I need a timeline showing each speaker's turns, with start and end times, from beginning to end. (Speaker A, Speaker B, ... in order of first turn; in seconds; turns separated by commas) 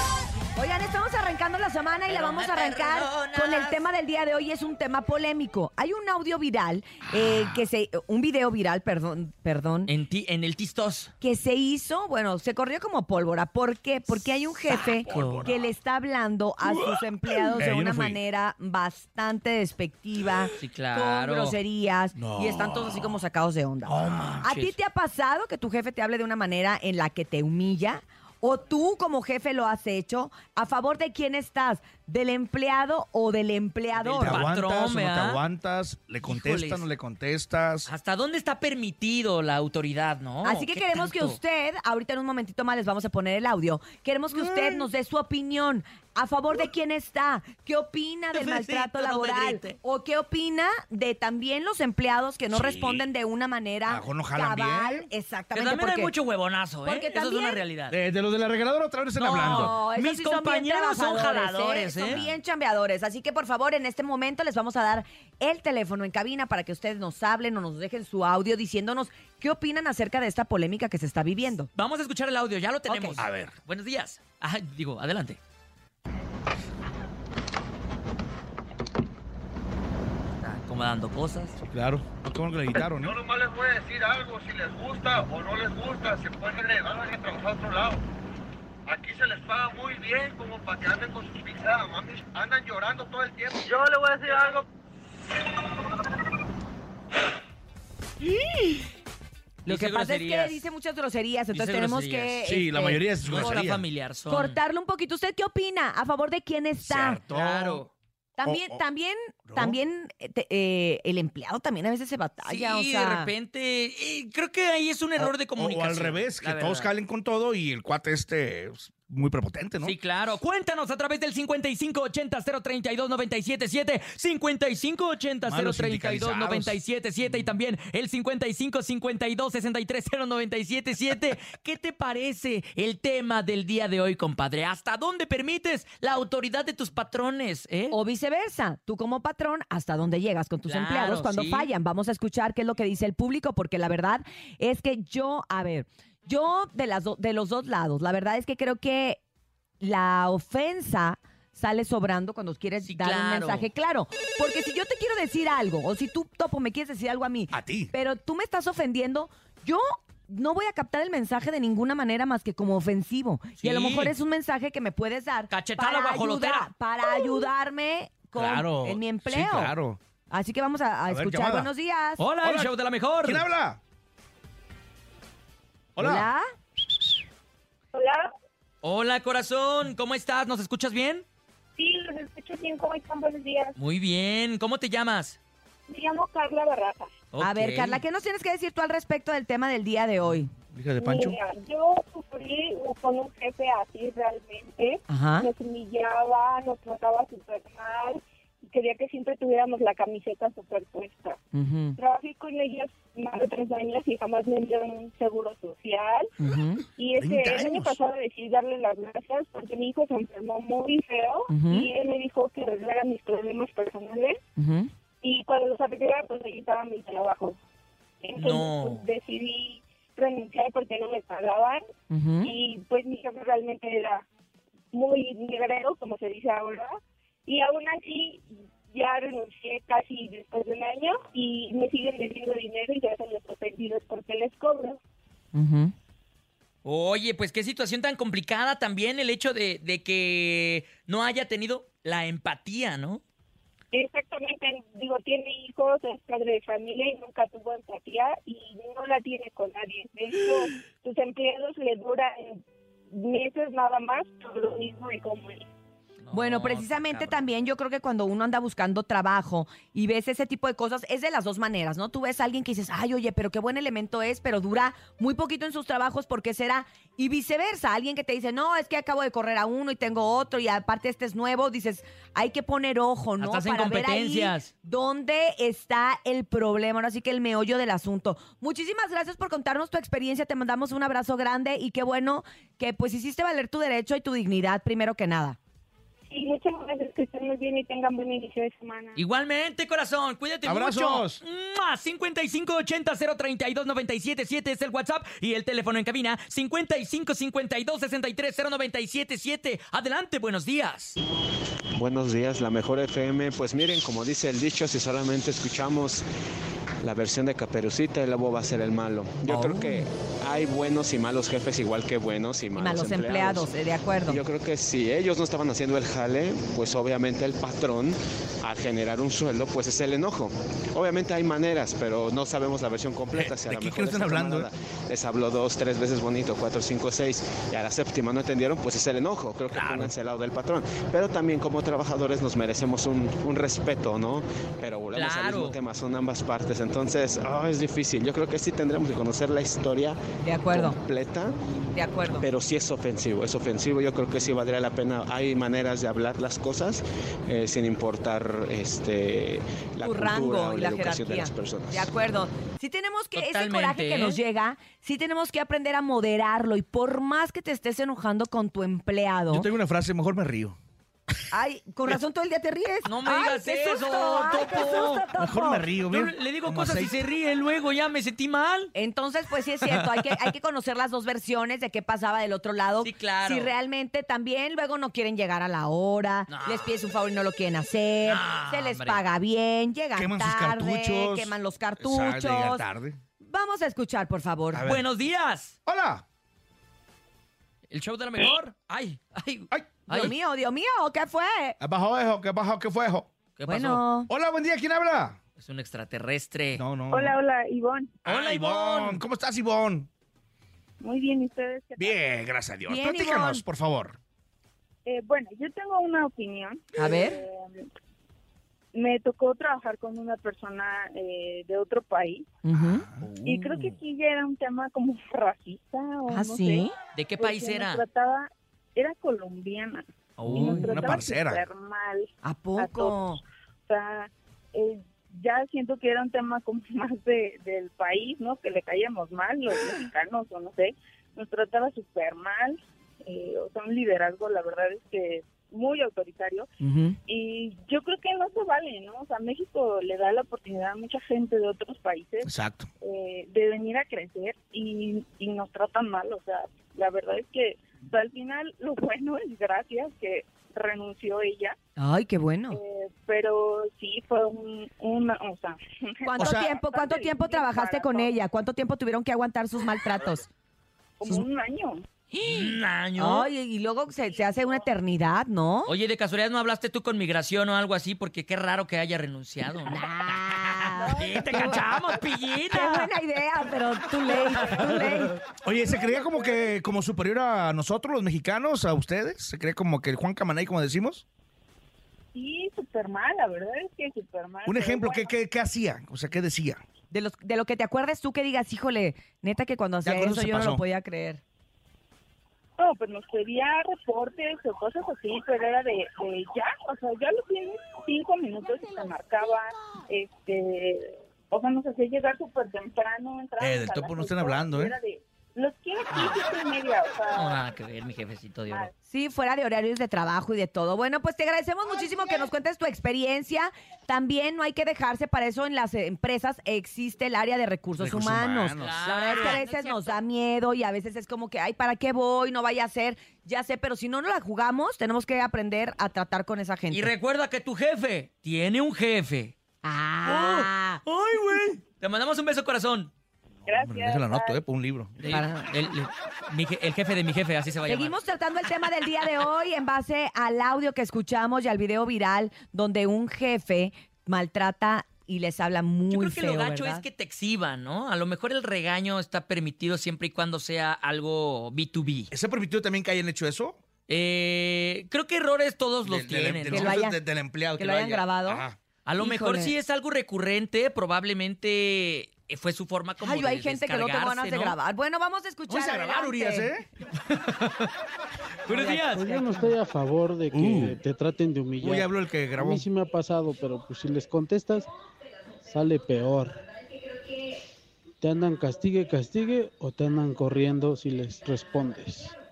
Speaker A: 0.5-9.9, Speaker B: 2.1-3.8, Speaker B: 9.8-11.1, Speaker A: 11.2-34.4, Speaker B: 14.7-15.5, Speaker C: 15.0-15.7, Speaker C: 16.6-18.2, Speaker B: 20.6-21.6, Speaker C: 22.1-23.2, Speaker C: 23.8-24.5, Speaker B: 24.3-24.8, Speaker B: 33.9-35.4, Speaker C: 34.2-37.9, Speaker B: 36.2-36.8, Speaker B: 37.9-41.4, Speaker A: 40.4-56.1, Speaker B: 44.3-44.9, Speaker B: 48.3-49.8, Speaker C: 52.5-53.0, Speaker C: 53.9-55.1, Speaker B: 55.5-58.0, Speaker A: 56.8-57.6, Speaker C: 57.9-59.8, Speaker B: 59.2-62.2, Speaker A: 59.4-71.7, Speaker C: 62.0-62.4, Speaker B: 71.7-75.4, Speaker A: 72.9-73.2, Speaker C: 73.2-73.5, Speaker B: 80.4-81.6, Speaker C: 81.6-83.2, Speaker D: 83.1-88.0, Speaker D: 88.9-94.6, Speaker A: 99.6-103.0, Speaker B: 99.7-100.7, Speaker B: 101.5-102.4, Speaker C: 102.4-103.8, Speaker B: 103.2-104.6, Speaker A: 104.3-107.2, Speaker C: 106.8-107.8, Speaker B: 107.2-107.9, Speaker A: 108.4-113.3, Speaker C: 108.4-108.8, Speaker C: 109.5-109.8, Speaker B: 112.5-116.9, Speaker C: 115.2-120.0, Speaker B: 119.8-137.9, Speaker C: 125.4-126.8, Speaker A: 137.9-149.2, Speaker B: 140.7-141.7, Speaker A: 149.8-169.7, Speaker B: 152.8-153.7, Speaker C: 157.5-157.9, Speaker B: 163.6-164.2, Speaker B: 165.5-167.2, Speaker C: 168.3-170.0, Speaker A: 170.3-172.2, Speaker C: 171.1-171.7, Speaker B: 172.2-173.4, Speaker C: 172.4-173.8, Speaker C: 175.9-176.3, Speaker A: 176.0-176.4, Speaker E: 177.9-178.3, Speaker B: 178.8-181.2, Speaker E: 181.8-183.7, Speaker B: 183.8-185.4, Speaker E: 185.9-187.1, Speaker B: 187.3-188.0, Speaker A: 187.4-190.5, Speaker C: 190.7-191.4, Speaker E: 191.0-201.4, Speaker A: 195.1-195.5, Speaker A: 201.5-202.0, Speaker E: 202.0-206.3, Speaker A: 206.4-206.8, Speaker E: 207.0-214.4, Speaker C: 207.2-208.0, Speaker A: 211.5-211.9, Speaker A: 214.6-214.9, Speaker E: 215.2-217.6, Speaker E: 218.2-221.8, Speaker B: 218.4-219.0, Speaker A: 222.1-222.5, Speaker E: 222.4-224.2, Speaker E: 224.9-235.0, Speaker A: 235.5-235.9, Speaker B: 236.8-243.2, Speaker E: 243.9-252.6, Speaker E: 253.1-255.7, Speaker B: 256.2-257.4, Speaker A: 256.3-285.6, Speaker B: 273.4-274.7, Speaker E: 286.3-289.2, Speaker B: 289.1-301.2, Speaker C: 290.6-291.4, Speaker F: 301.9-306.2, Speaker F: 307.0-313.7, Speaker B: 309.5-310.0, Speaker A: 312.8-314.4, Speaker F: 314.2-340.2, Speaker C: 323.3-324.7, Speaker B: 329.7-330.1, Speaker B: 335.1-335.8, Speaker A: 340.4-341.0, Speaker F: 340.7-341.6, Speaker A: 341.9-342.4, Speaker F: 342.4-352.1, Speaker A: 350.0-359.7, Speaker B: 353.3-354.4, Speaker C: 359.5-360.8, Speaker A: 361.5-365.9, Speaker B: 363.0-365.3, Speaker C: 365.4-367.2, Speaker B: 366.1-368.9, Speaker A: 368.9-382.8, Speaker B: 369.9-370.2, Speaker B: 373.0-373.7, Speaker B: 376.5-376.9, Speaker B: 378.2-379.2, Speaker C: 380.1-383.2, Speaker A: 383.4-384.8, Speaker C: 384.7-385.1, Speaker B: 384.8-385.7, Speaker C: 385.9-386.2, Speaker B: 387.9-390.3, Speaker C: 389.7-390.3, Speaker A: 390.1-391.8, Speaker C: 391.8-393.3, Speaker B: 393.6-394.0, Speaker A: 393.6-394.3, Speaker C: 394.3-395.4, Speaker B: 395.6-396.8, Speaker C: 396.7-397.4, Speaker E: 397.1-398.2, Speaker C: 398.2-400.1, Speaker B: 398.2-399.2, Speaker E: 401.0-402.2, Speaker C: 402.0-404.1, Speaker A: 402.9-403.6, Speaker E: 405.1-407.9, Speaker A: 406.9-407.4, Speaker E: 408.9-412.5, Speaker A: 412.6-413.9, Speaker C: 412.8-413.3, Speaker E: 413.4-416.9, Speaker A: 416.3-416.9, Speaker B: 417.1-418.0, Speaker E: 417.4-423.2, Speaker B: 420.4-420.9, Speaker A: 420.5-421.2, Speaker C: 420.9-421.6, Speaker A: 422.4-423.4, Speaker E: 423.9-436.7, Speaker A: 436.8-437.2, Speaker E: 437.2-442.5, Speaker C: 442.4-442.9, Speaker E: 443.0-451.8, Speaker A: 452.0-452.8, Speaker E: 452.7-458.4, Speaker A: 456.2-460.5, Speaker C: 456.4-456.7, Speaker E: 461.2-462.0, Speaker B: 462.3-463.5, Speaker A: 463.2-465.9, Speaker B: 465.9-470.1, Speaker A: 469.9-471.8, Speaker E: 471.0-471.5, Speaker B: 471.1-473.1, Speaker A: 472.7-475.4, Speaker C: 474.8-481.2, Speaker E: 475.8-476.8, Speaker E: 482.3-485.3, Speaker C: 484.6-486.8, Speaker A: 487.1-491.4, Speaker C: 490.0-490.8, Speaker E: 492.8-507.6, Speaker C: 503.6-504.9, Speaker B: 506.1-506.4, Speaker B: 507.3-508.9, Speaker A: 509.1-527.1, Speaker C: 517.9-519.5, Speaker B: 518.8-520.2, Speaker B: 526.9-529.5, Speaker A: 529.8-531.0, Speaker B: 530.2-533.1, Speaker C: 533.6-535.2, Speaker E: 533.7-534.6, Speaker B: 535.2-538.1, Speaker A: 535.3-535.7, Speaker A: 537.9-547.0, Speaker B: 546.1-552.3, Speaker C: 552.3-553.8, Speaker B: 554.1-557.0, Speaker C: 556.0-558.8, Speaker A: 556.7-557.2, Speaker A: 557.8-558.6, Speaker B: 559.0-564.8, Speaker A: 559.2-559.7, Speaker A: 563.2-566.7, Speaker C: 565.7-566.9, Speaker B: 567.3-567.9, Speaker B: 568.6-569.3, Speaker A: 568.7-569.7, Speaker G: 569.0-574.9, Speaker C: 570.5-571.0, Speaker C: 571.8-572.9, Speaker G: 575.6-576.6, Speaker G: 578.2-582.3